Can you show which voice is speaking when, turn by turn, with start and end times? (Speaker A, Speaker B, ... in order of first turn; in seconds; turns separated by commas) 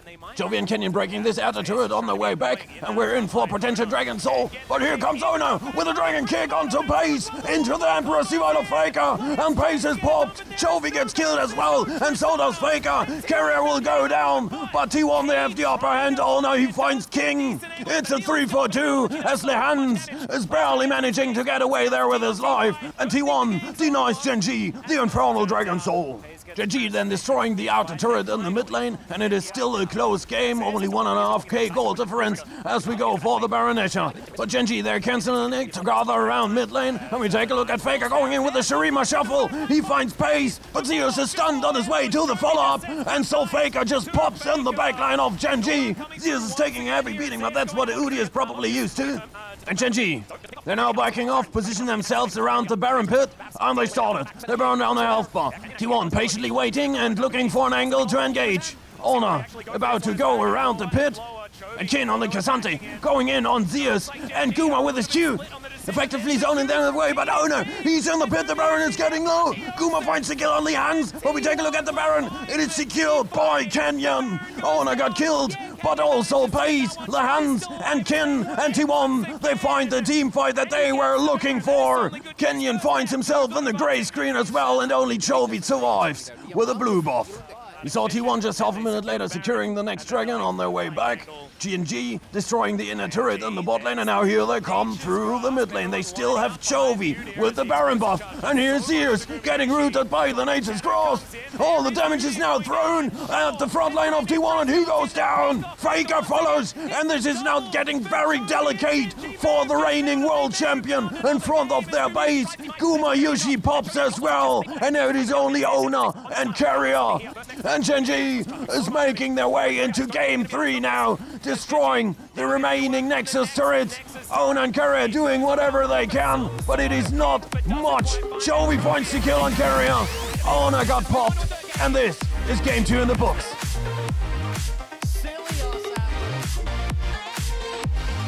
Speaker A: 0.3-133.6